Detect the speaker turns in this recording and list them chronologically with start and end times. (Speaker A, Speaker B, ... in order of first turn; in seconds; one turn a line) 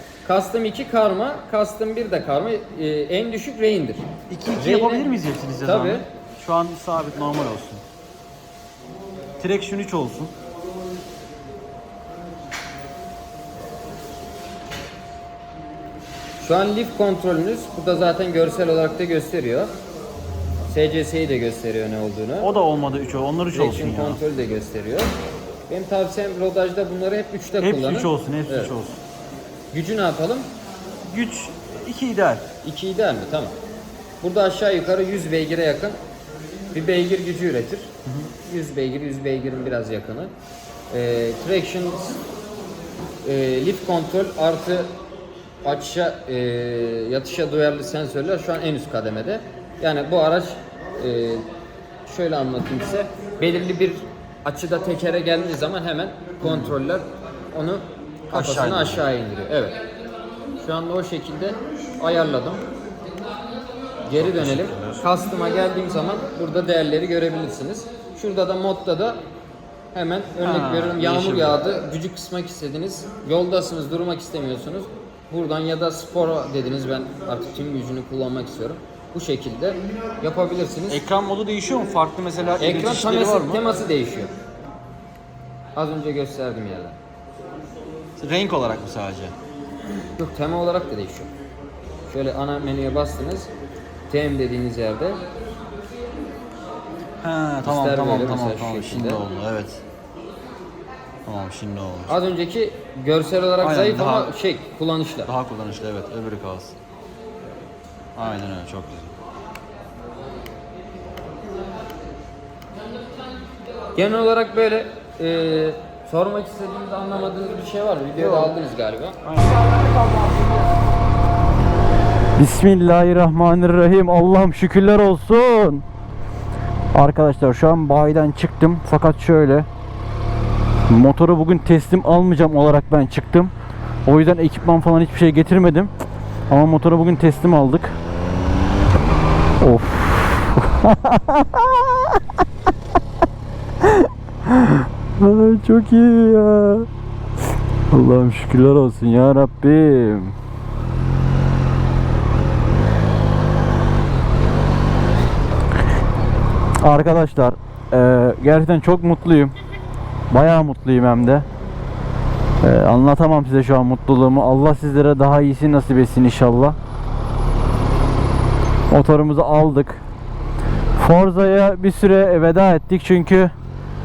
Speaker A: 0.2-6.0
Speaker B: 4.3-7.8
Speaker B: 9.4-10.3
Speaker A: 16.4-19.7
Speaker A: 20.6-22.5
Speaker B: 22.4-24.2
Speaker A: 23.5-25.1
Speaker A: 25.7-28.7
Speaker B: 27.6-29.0
Speaker A: 29.7-30.5
Speaker B: 31.1-32.5
Speaker A: 32.6-33.6
Speaker A: 34.2-36.0
Speaker A: 36.7-40.3
Speaker A: 40.9-42.2
Speaker A: 43.2-44.9
Speaker A: 45.6-51.5
Speaker A: 52.0-59.8
Speaker B: 56.4-56.7
Speaker B: 58.3-59.0
Speaker A: 60.6-62.6
Speaker A: 64.0-69.2
Speaker B: 64.1-65.0
Speaker A: 69.9-81.0
Speaker B: 70.4-71.6
Speaker B: 80.9-83.6
Speaker A: 82.6-84.3
Speaker A: 85.7-87.0
Speaker B: 88.2-89.3
Speaker A: 90.2-91.3
Speaker A: 92.1-93.5
Speaker A: 94.1-95.2
Speaker B: 97.2-99.8
Speaker A: 97.6-99.2
Speaker B: 101.2-102.1
Speaker A: 102.1-105.3
Speaker B: 103.6-104.3
Speaker B: 105.2-106.7
Speaker B: 108.2-109.1
Speaker A: 114.0-119.2
Speaker B: 118.2-118.5
Speaker B: 119.3-119.6
Speaker C: 122.4-125.8
Speaker C: 126.9-129.7
Speaker C: 130.9-133.5
Speaker C: 134.1-135.9
Speaker C: 136.5-137.9
Speaker C: 139.6-142.2
Speaker C: 143.8-146.9
Speaker C: 147.9-150.3
Speaker C: 156.8-159.5
Speaker C: 160.3-161.4
Speaker C: 162.6-166.8
Speaker C: 168.9-170.0
Speaker C: 170.9-173.5